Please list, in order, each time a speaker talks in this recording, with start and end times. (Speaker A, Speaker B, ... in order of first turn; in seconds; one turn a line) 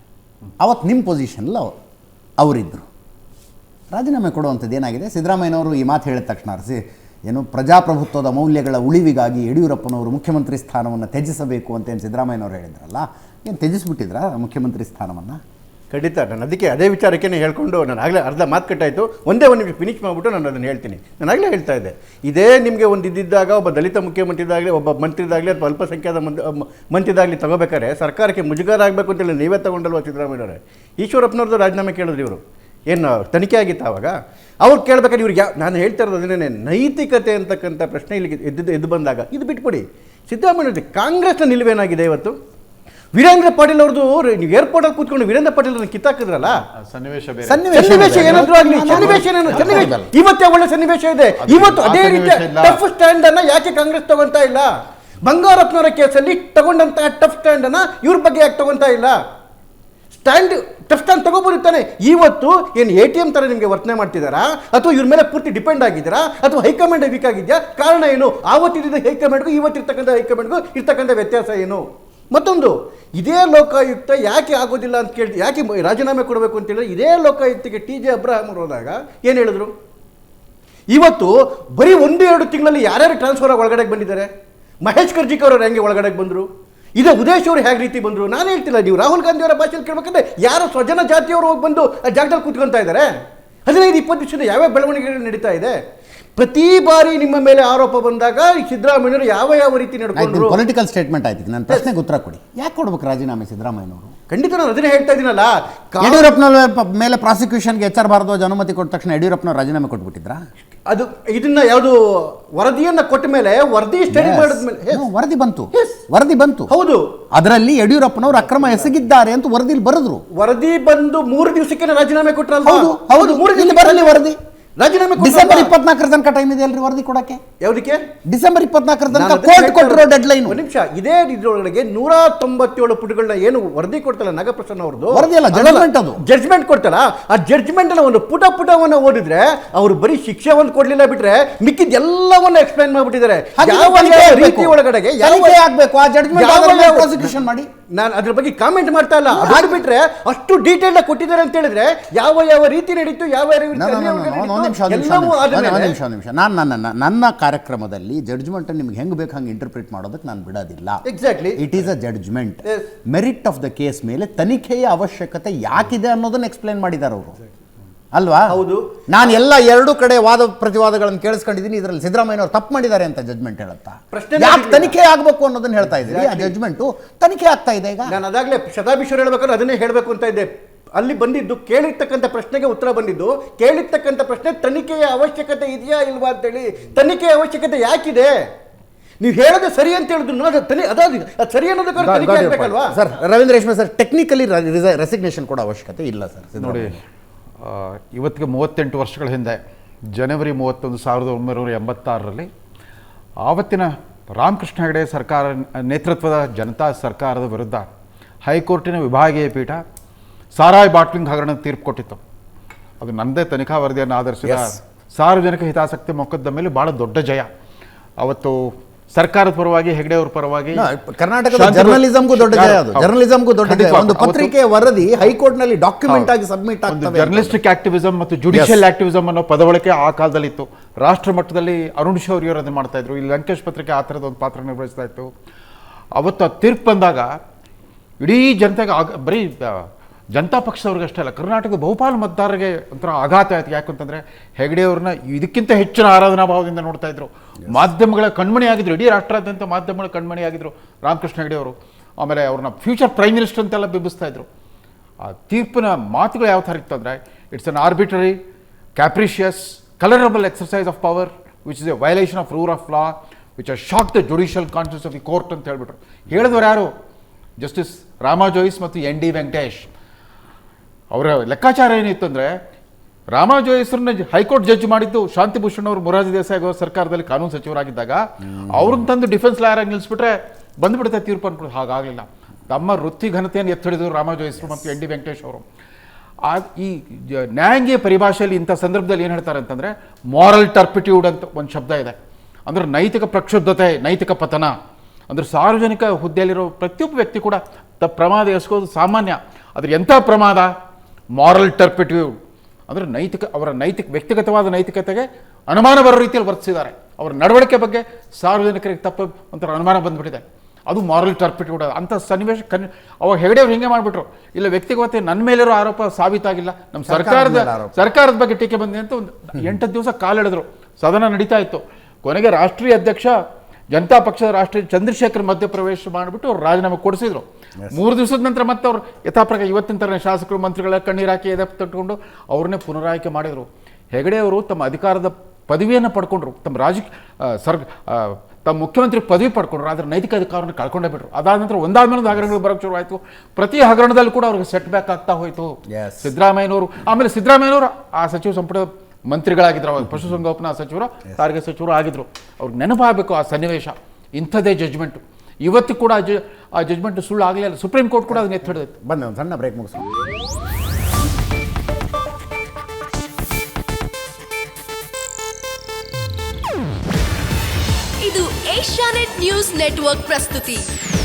Speaker A: 0.6-1.7
Speaker A: 2.4-2.9
Speaker A: 3.9-15.4
Speaker B: 15.9-42.4
Speaker B: 43.1-46.6
Speaker C: 46.5-50.0
Speaker A: 47.5-50.0
Speaker B: 47.7-54.7
Speaker C: 51.4-52.8
Speaker B: 55.2-59.2
Speaker B: 60.1-79.7
Speaker B: 80.9-84.3
Speaker B: 84.8-93.1
Speaker B: 93.7-95.8
Speaker B: 96.4-100.6
Speaker A: 100.2-104.1
Speaker B: 104.3-106.3
Speaker A: 106.0-110.4
Speaker B: 110.9-115.0
Speaker A: 114.1-116.7
Speaker B: 115.7-116.0
Speaker B: 116.7-117.1
Speaker A: 117.3-120.2
Speaker B: 118.4-118.9
Speaker B: 120.3-124.2
Speaker A: 122.7-124.4
Speaker B: 124.8-125.7
Speaker A: 125.2-127.4
Speaker B: 127.6-128.0
Speaker A: 128.3-130.6
Speaker B: 129.1-145.6
Speaker A: 135.1-136.2
Speaker A: 143.6-147.7
Speaker B: 146.3-147.3
Speaker B: 147.9-156.0
Speaker A: 149.3-149.8
Speaker A: 153.7-161.0
Speaker B: 161.1-161.7
Speaker A: 161.6-167.4
Speaker A: 168.1-168.5
Speaker B: 168.5-169.3
Speaker A: 169.1-178.2
Speaker B: 174.1-174.9
Speaker B: 175.9-176.5
Speaker B: 178.1-188.4
Speaker B: 189.2-192.9
Speaker A: 192.0-197.0
Speaker C: 196.6-197.0
Speaker C: 197.6-199.6
Speaker C: 200.1-202.5
Speaker C: 203.4-207.9
Speaker C: 208.4-209.8
Speaker C: 210.5-212.2
Speaker C: 213.0-217.5
Speaker A: 214.4-214.8
Speaker C: 218.2-220.8
Speaker A: 220.7-227.6
Speaker C: 221.5-224.5
Speaker C: 226.1-226.3
Speaker C: 226.9-235.3
Speaker A: 228.5-228.8
Speaker C: 236.2-237.3
Speaker C: 238.2-254.5
Speaker C: 255.2-258.4
Speaker C: 259.0-266.9
Speaker C: 267.6-269.9
Speaker C: 271.1-272.6
Speaker C: 273.3-285.6
Speaker C: 286.4-292.2
Speaker C: 292.7-294.7
Speaker C: 295.3-300.7
Speaker C: 301.4-302.3
Speaker C: 302.9-323.3
Speaker A: 317.1-318.0
Speaker C: 323.9-358.9
Speaker A: 345.9-346.3
Speaker A: 358.3-360.1
Speaker D: 368.2-370.8